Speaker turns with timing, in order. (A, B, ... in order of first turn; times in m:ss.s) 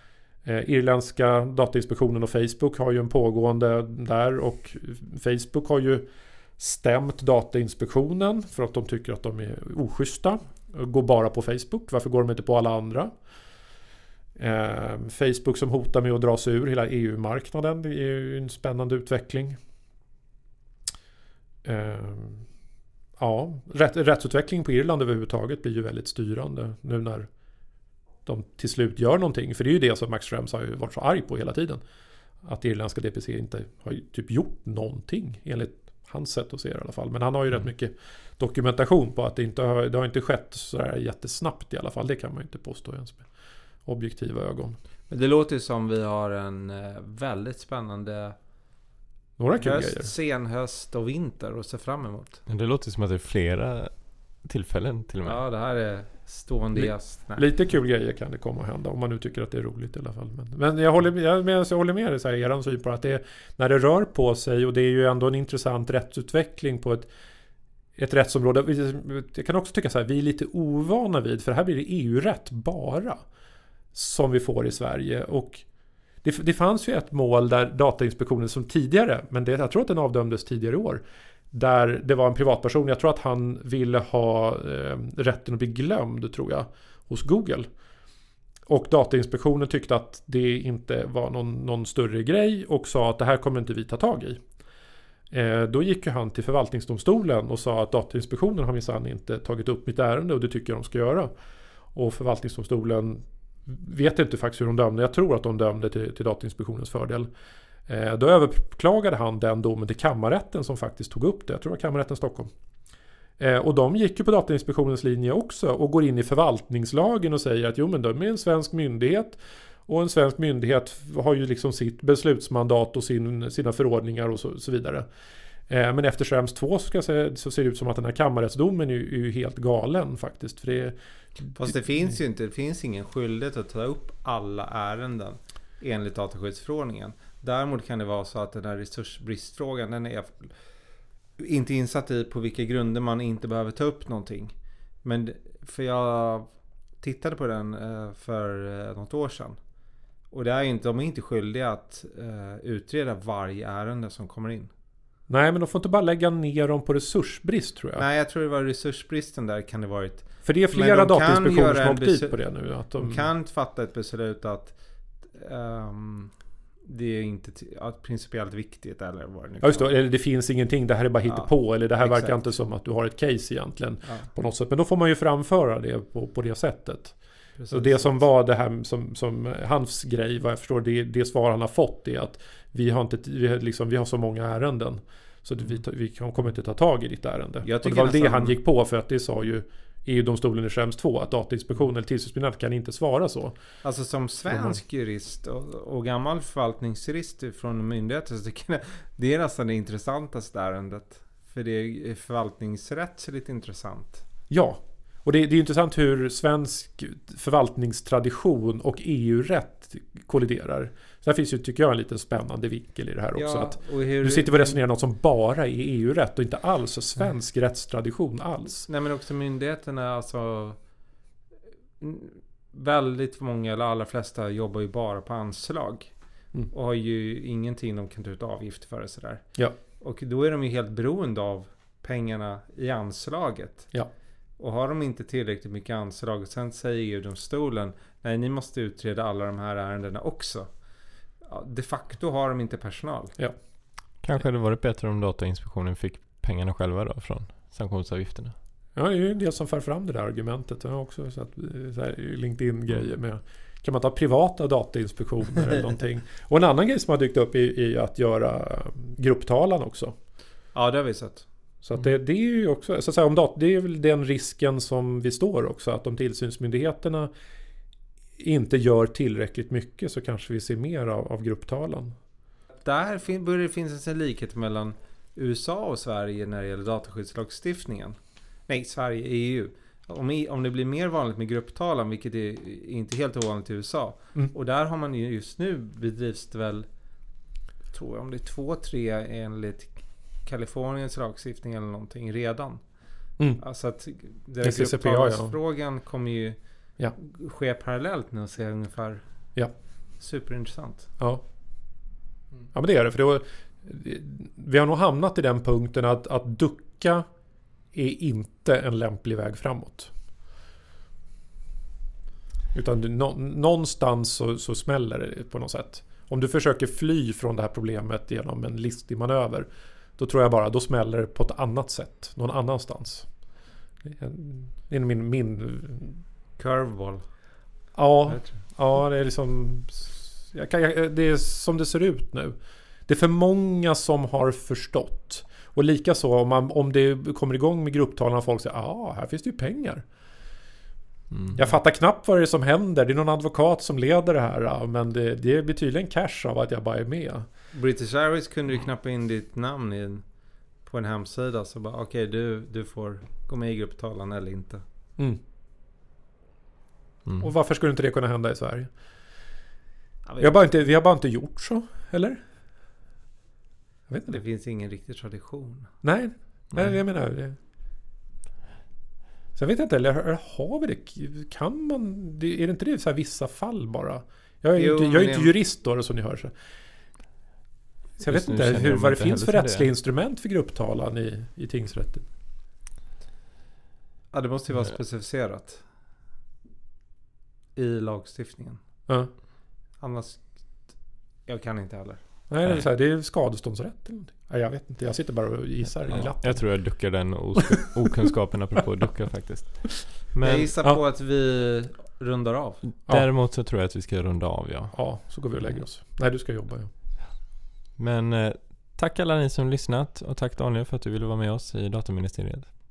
0:00.4-0:06.1 A
0:06.6-0:13.1 A
0:14.4-0:19.6 A
0:21.6-0:22.5 A
0:23.2-0:27.3 A
0:28.2-0:31.8 A
0:32.4-0:43.3 A
0:43.8-0:44.8 A
0:45.1-0:48.4 B
0:49.4-0:50.1 A
0:49.6-0:52.4 B
0:52.5-0:55.4 C
0:55.2-0:57.5 B
0:56.7-1:07.1 A
1:08.0-1:13.2 A
1:13.9-1:15.6 A
1:16.2-1:27.7 A
1:28.7-1:34.4 A
1:35.3-1:41.3 A
1:41.9-1:47.3 A
1:47.9-1:52.5 A
1:53.4-2:05.1 A
2:05.7-2:11.6 A
2:11.6-2:20.5 B
2:21.4-2:26.5 B
2:27.0-2:29.6 B
2:30.3-2:34.7 B
2:35.3-2:38.0 A
2:38.0-2:42.4 B
2:40.4-2:43.3 A
2:42.9-2:50.0 B
2:49.6-2:57.2 A
2:51.2-2:52.5 B
2:57.6-2:58.2 B
2:57.7-3:13.6 A
3:07.6-3:08.6 B
3:13.8-3:24.2 B
3:14.5-3:14.8 A
3:24.5-3:38.9 A
3:33.4-3:34.8 B
3:38.9-3:40.8 B
3:42.0-3:46.1 B
3:46.7-3:49.5 B
3:50.0-3:53.9 B
3:54.6-4:00.7 B
4:01.5-4:03.4 B
4:04.2-4:08.6 C
4:09.0-4:20.2 A
4:20.7-4:21.5 B
4:21.8-4:27.3 A
4:28.4-4:32.2 A
4:32.8-4:46.9 B
4:47.9-4:52.8 B
4:53.6-4:56.6 B
4:54.6-4:55.6 A
4:57.2-4:59.2 B
5:00.2-5:01.1 B
5:02.7-5:07.3 A
5:07.9-5:10.1 A
5:12.7-5:23.4 A
5:24.0-5:26.2 A
5:26.6-5:27.3 B
5:27.9-5:32.6 A
5:28.3-5:28.6 B
5:33.1-5:40.0 A
5:41.3-5:41.6 C
5:41.5-5:47.5 A
5:47.7-5:50.2 B
5:50.8-5:54.8 B
5:57.4-5:58.9 A
6:00.3-6:00.6 B
6:00.4-6:02.4 A
6:04.1-6:04.4 A
6:04.3-6:05.9 B
6:06.0-6:07.6 A
6:09.6-6:16.5 A
6:14.8-6:15.5 B
6:18.2-6:22.3 A
6:18.2-6:19.9 C
6:24.3-6:25.8 B
6:27.8-6:28.8 B
6:30.0-6:32.2 B
6:32.5-6:36.8 A
6:36.1-6:40.7 C
6:40.4-6:42.8 B
6:43.0-6:45.5 C
6:44.9-6:46.9 A
6:48.0-6:52.7 C